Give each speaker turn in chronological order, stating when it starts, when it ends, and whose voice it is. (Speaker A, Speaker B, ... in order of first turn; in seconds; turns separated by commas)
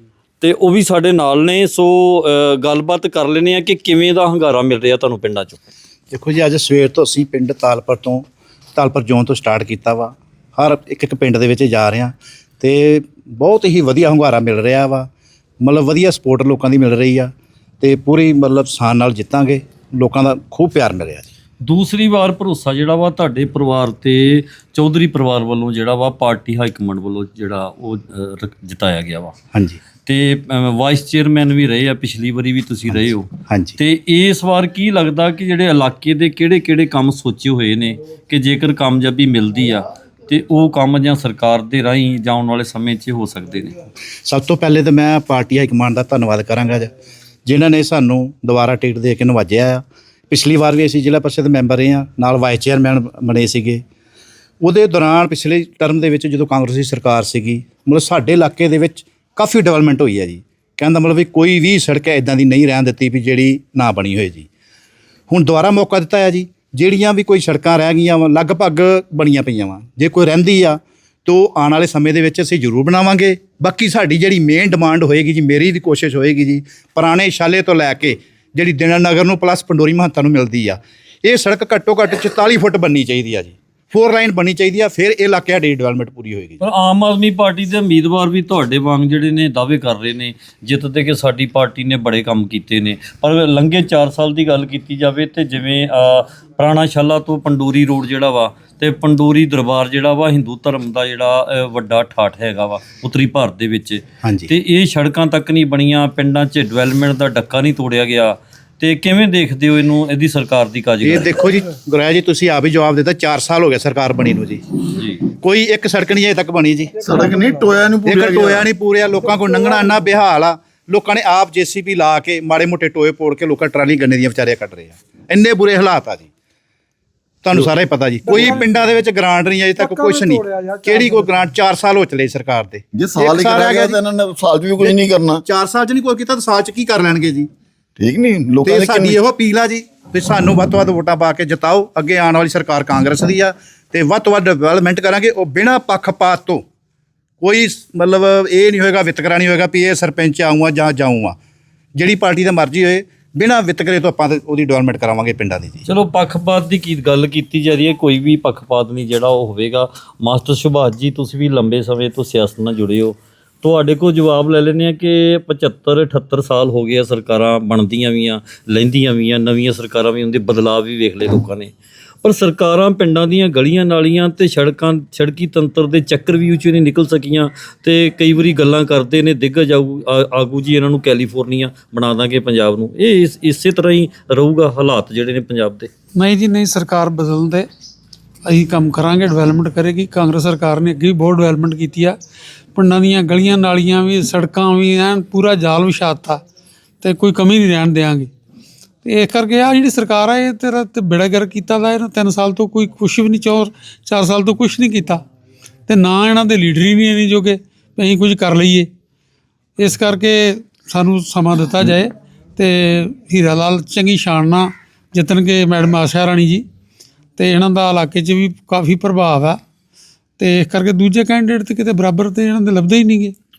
Speaker A: 0.4-5.6, Speaker B: 6.1-8.2, Speaker B: 8.8-15.1, Speaker B: 15.6-21.3, Speaker A: 21.6-29.4, Speaker B: 29.5-29.8, Speaker A: 30.1-43.7, Speaker B: 33.5-33.8, Speaker B: 44.3-46.9, Speaker B: 47.5-53.8, Speaker B: 54.6-64.5, Speaker B: 65.3-86.6, Speaker A: 86.6-111.3, Speaker B: 104.2-104.5, Speaker B: 111.0-114.6, Speaker A: 115.0-115.2, Speaker B: 115.3-117.0, Speaker C: 117.0-118.7, Speaker B: 118.0-126.3, Speaker B: 127.4-134.0, Speaker C: 132.9-135.4, Speaker B: 134.8-137.5, Speaker C: 138.0-139.2, Speaker B: 138.6-146.6, Speaker B: 147.4-151.4, Speaker B: 152.0-155.9, Speaker A: 155.9-185.9, Speaker D: 186.2-187.7, Speaker D: 188.4-192.2, Speaker D: 192.7-196.4, Speaker D: 197.0-198.3, Speaker D: 199.0-205.2, Speaker D: 205.9-208.9, Speaker D: 209.8-216.7, Speaker D: 217.4-219.6, Speaker D: 220.4-223.3